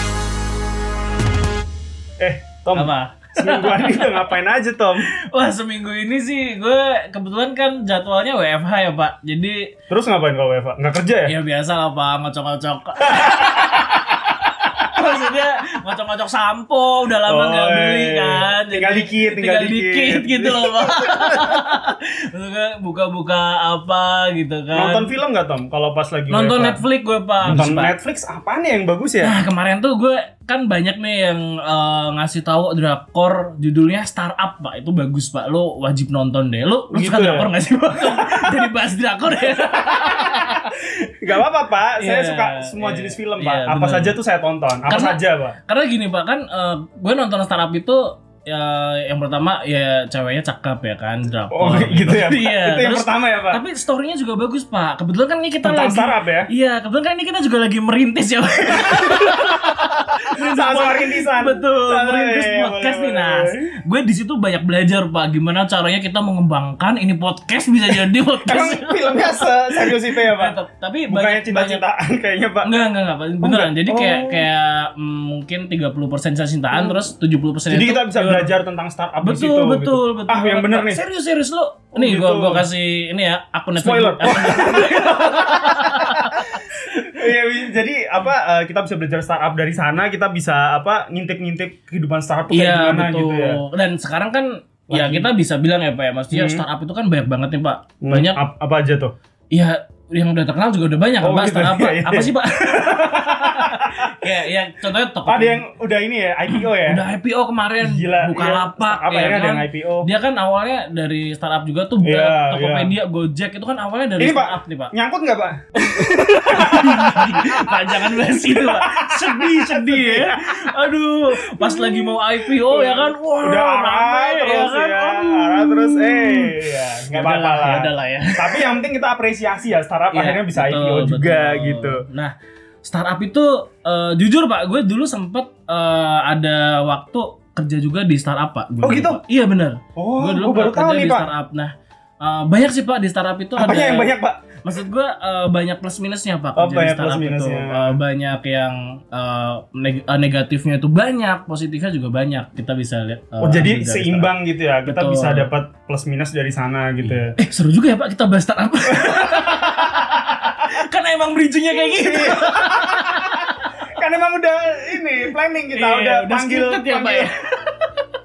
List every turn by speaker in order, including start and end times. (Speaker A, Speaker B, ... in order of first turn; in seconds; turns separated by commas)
Speaker A: 2.2-5.1, Speaker B: 2.7-4.3, Speaker B: 5.2-9.7, Speaker A: 9.9-11.3, Speaker B: 11.3-25.1, Speaker A: 13.0-13.9, Speaker A: 17.2-21.8, Speaker A: 24.7-26.8, Speaker B: 26.3-27.9, Speaker A: 27.4-29.4, Speaker B: 29.2-40.8, Speaker A: 36.9-38.7, Speaker A: 39.4-40.7, Speaker A: 41.2-45.5, Speaker B: 42.0-44.2, Speaker B: 44.9-71.8, Speaker A: 51.5-53.6, Speaker A: 55.6-56.5, Speaker A: 58.7-63.7, Speaker A: 68.5-70.5, Speaker A: 71.1-72.7, Speaker B: 72.6-78.5, Speaker A: 73.4-74.5, Speaker A: 77.7-81.0, Speaker B: 79.2-87.2, Speaker A: 81.9-82.7, Speaker A: 83.8-93.6, Speaker B: 92.5-98.4, Speaker A: 94.9-95.3, Speaker A: 96.3-96.6, Speaker A: 98.0-99.1, Speaker B: 99.5-105.6, Speaker A: 101.2-104.3, Speaker A: 105.3-107.0, Speaker B: 106.5-114.9, Speaker A: 107.8-110.1, Speaker A: 112.0-112.9, Speaker A: 114.2-120.8, Speaker B: 115.7-128.8, Speaker A: 121.4-132.1, Speaker B: 130.1-132.3, Speaker B: 132.8-154.3, Speaker A: 138.8-139.2, Speaker A: 139.9-141.3, Speaker A: 143.6-144.6, Speaker A: 146.6-148.0, Speaker A: 153.4-157.4, Speaker B: 154.8-155.5, Speaker B: 157.0-163.6, Speaker A: 158.9-160.0, Speaker A: 161.9-167.3, Speaker B: 165.7-168.0